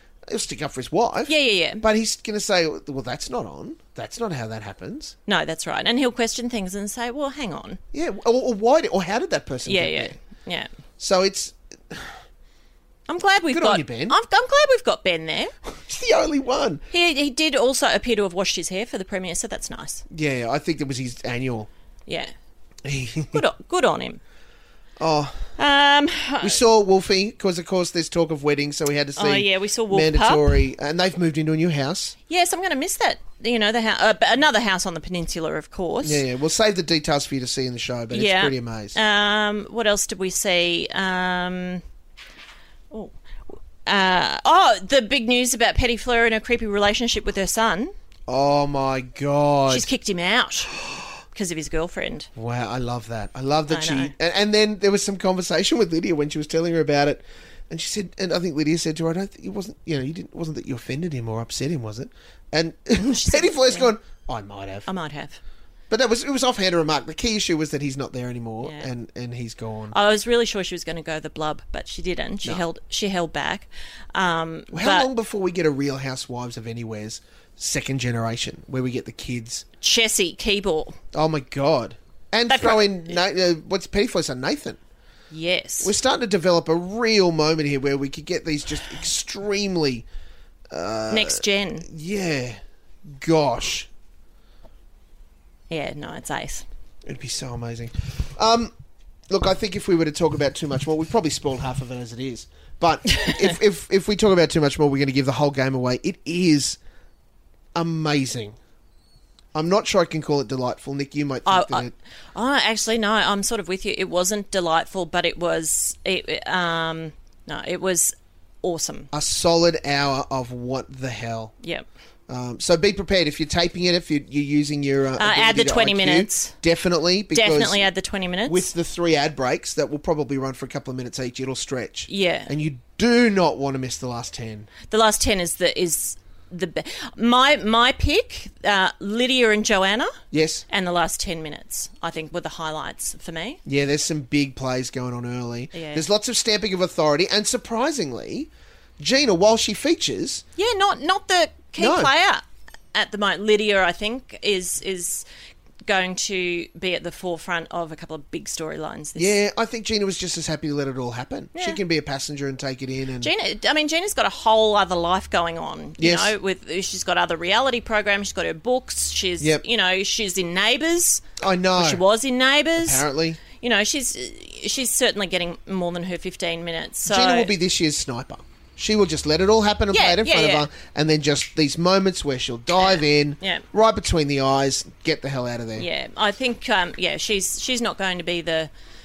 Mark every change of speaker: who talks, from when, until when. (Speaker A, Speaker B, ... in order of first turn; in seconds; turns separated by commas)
Speaker A: 0.3-5.1, Speaker B: 1.3-1.8, Speaker B: 5.3-7.8, Speaker A: 7.9-10.2, Speaker B: 9.7-10.7, Speaker A: 11.0-12.1, Speaker B: 13.1-15.5, Speaker A: 13.5-14.2, Speaker A: 15.7-16.8, Speaker B: 16.9-20.0, Speaker A: 20.1-21.7, Speaker B: 22.1-22.3, Speaker A: 22.8-23.4, Speaker B: 23.3-24.2, Speaker A: 25.0-25.5, Speaker B: 25.6-26.6, Speaker A: 26.4-32.1, Speaker B: 29.2-30.6, Speaker B: 32.3-36.2, Speaker A: 36.0-39.0, Speaker B: 38.1-41.8, Speaker B: 43.8-47.9, Speaker A: 48.3-49.9, Speaker B: 49.7-50.7, Speaker B: 51.3-52.3, Speaker A: 52.3-64.9, Speaker B: 53.7-54.1, Speaker B: 63.0-63.9, Speaker B: 64.9-65.4, Speaker A: 65.9-70.0, Speaker B: 68.6-68.9, Speaker B: 69.9-75.1, Speaker A: 74.7-79.6, Speaker B: 79.8-81.0, Speaker A: 81.1-84.8, Speaker B: 82.5-83.0, Speaker B: 85.3-85.9, Speaker A: 85.8-90.0, Speaker A: 90.7-92.6, Speaker B: 91.1-91.9, Speaker A: 93.1-93.9, Speaker B: 95.7-96.7, Speaker A: 97.0-98.7, Speaker A: 99.3-106.8, Speaker B: 103.2-103.5, Speaker A: 107.7-108.5, Speaker A: 109.5-111.9, Speaker B: 111.5-119.1, Speaker A: 119.1-121.5, Speaker B: 121.6-121.9, Speaker A: 122.3-127.9, Speaker B: 125.2-126.5, Speaker B: 127.3-128.7, Speaker A: 128.5-134.7, Speaker B: 132.1-132.5, Speaker B: 134.9-143.6, Speaker A: 140.3-140.6, Speaker A: 143.7-150.4, Speaker B: 145.7-146.0, Speaker B: 150.6-155.2, Speaker A: 151.8-152.1, Speaker B: 155.9-159.4, Speaker A: 159.2-163.3, Speaker B: 161.5-161.8, Speaker B: 163.2-171.2, Speaker A: 166.0-166.3, Speaker A: 171.4-172.0, Speaker B: 171.8-177.5, Speaker A: 172.8-173.4, Speaker A: 177.1-185.9, Speaker B: 179.9-180.7, Speaker B: 182.8-183.6, Speaker B: 185.8-188.7